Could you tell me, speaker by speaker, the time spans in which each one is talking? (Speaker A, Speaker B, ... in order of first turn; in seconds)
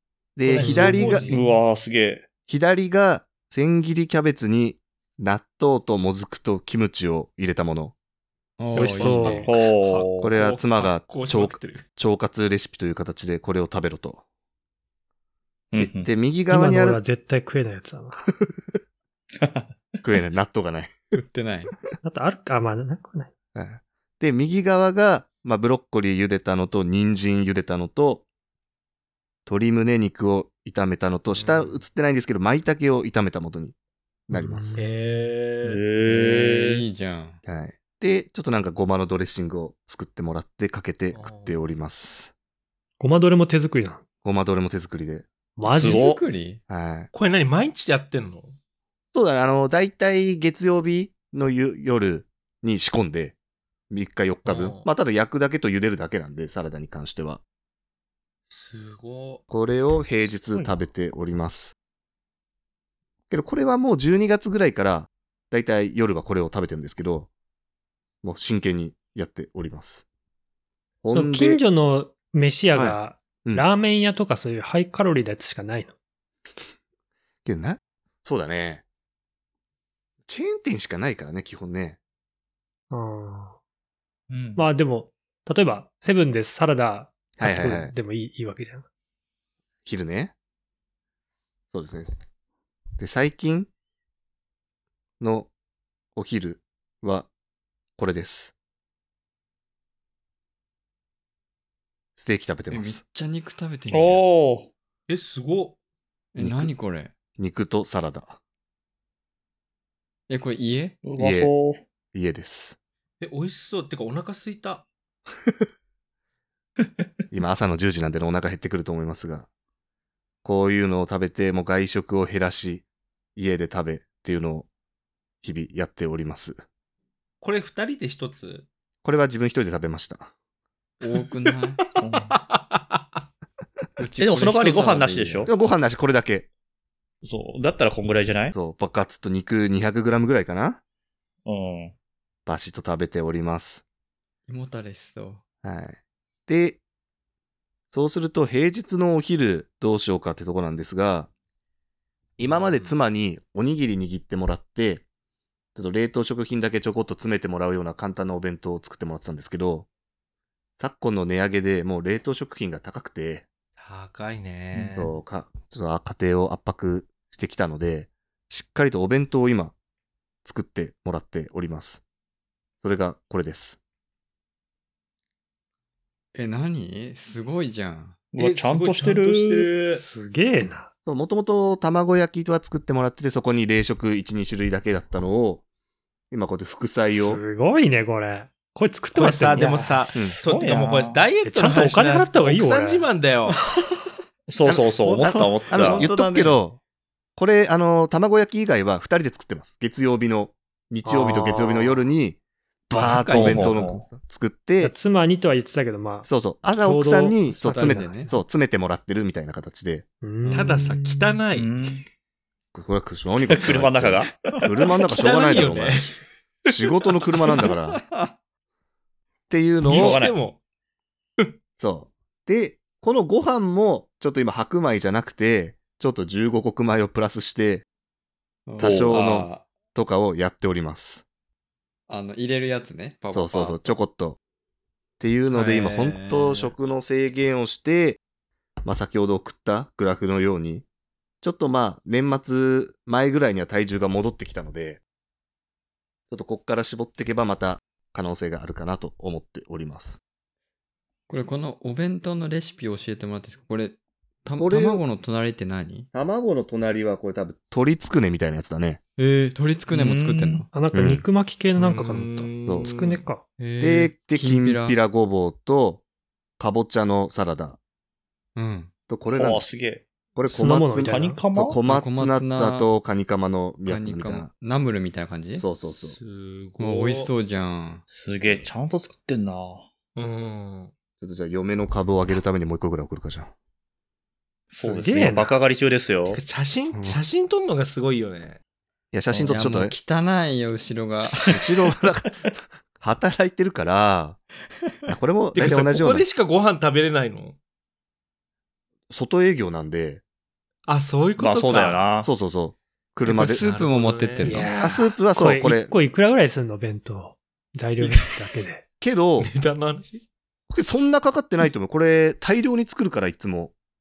Speaker A: 0.3-1.2, 2.5-7.9, 10.2-14.2, 15.8-17.0, 20.0-21.1, 23.5-28.2, 29.4-33.7, 34.3-34.8, 37.4-42.3, 44.2-45.2, 46.7-47.1, 49.1-53.3, 53.9-57.4, 59.5-61.7, 63.3-67.3, 68.2-70.0, 71.0-71.6, 72.7-73.7, 77.4-78.8, 80.3-82.0, 87.4-87.9, 89.8-90.3, 91.7-92.2, 93.0-93.7, 95.2-95.5, 96.1-97.3, 98.0-98.5, 102.2-103.0, 106.4-106.7, 107.4-108.4, 111.2-111.5, 112.1-112.8, 117.3-119.5, 120.4-122.8, 123.3-124.7, 125.4-126.6, 129.0-130.3, 135.4-136.5, 138.5-140.8, 142.4-143.8, 145.6-146.8, 147.9-151.3, 152.4-155.0, 155.7-159.9, 160.8-163.4, 164.9-169.7, 170.4-172.0, 172.8-173.8, 181.1-185.6, 186.3-187.4, 190.1-190.4, 194.6-196.8, 197.3-202.4, 202.9-204.9, 206.2-210.1, 212.7-218.0, 219.5-220.2, 221.8-227.8, 228.8-231.2, 233.3-234.4, 235.2-238.2, 238.8-240.8, 241.4-245.0, 246.3-250.2, 254.6-255.0, 256.1-259.0, 260.9-261.2, 263.8-266.0, 266.6-267.8, 269.1-269.6, 270.3-274.5, 275.5-276.2, 281.2-283.5, 286.9-287.2, 289.1-289.9, 291.5-292.4, 293.0-294.4, 295.1-296.2, 299.1-300.2, 302.2-303.6, 304.8-305.9, 309.0-309.5, 310.7-313.7
Speaker B: 0.5-1.6, 9.1-11.8, 31.4-31.8, 34.7-35.8, 41.1-41.6, 47.1-48.5, 54.4-54.9, 58.5-59.4, 105.1-105.8, 113.2-114.9, 127.4-128.7, 131.8-133.0, 152.5-152.9, 163.8-165.2, 178.4-180.0, 189.2-193.6, 202.9-203.8, 210.5-211.7, 215.0-216.7, 219.9-220.6, 235.5-236.7, 261.8-263.2, 276.1-277.3, 280.1-280.9, 286.3-288.6, 295.5-297.6, 300.9-302.0, 303.5-305.0, 309.4-310.2
Speaker C: 0.6-1.5, 8.6-9.5, 21.1-21.7, 36.0-37.4, 45.6-46.6, 102.7-104.2, 106.3-107.1, 110.3-111.0, 131.0-131.8, 134.0-135.5, 144.5-145.4, 176.3-178.2, 189.6-190.1, 193.7-194.1, 194.9-196.6, 207.6-208.3, 217.6-218.3, 228.7-229.7, 232.1-233.9, 251.3-256.1, 259.2-260.7, 263.6-265.0, 268.6-268.9, 271.8-272.9, 273.9-275.6, 276.8-278.0, 289.4-291.9, 303.2-304.7, 308.0-308.3
Speaker D: 1.2-2.3, 8.8-10.3, 15.7-16.1, 19.4-19.7, 35.6-36.8, 45.7-46.2, 84.3-84.7, 103.9-104.7, 111.0-111.8, 132.0-132.3, 134.2-135.5, 137.2-138.5, 141.4-141.9, 178.3-179.7, 190.4-191.2, 194.5-196.1, 203.2-204.0, 211.5-212.0, 213.4-214.7, 219.8-220.4, 228.8-229.1, 259.9-260.7, 269.3-270.0, 271.0-271.8, 278.1-279.9, 284.7-286.4, 301.4-302.3
Speaker E: 8.7-9.5, 16.5-18.3, 22.0-23.3, 34.3-34.8, 43.0-44.0, 45.6-46.0, 71.1-75.9, 82.9-83.6, 84.5-88.8, 179.9-180.9, 187.1-190.1, 191.4-193.1, 201.0-202.0, 204.8-208.3, 210.2-211.4, 260.7-263.4, 270.5-271.4, 284.8-285.5, 304.4-308.8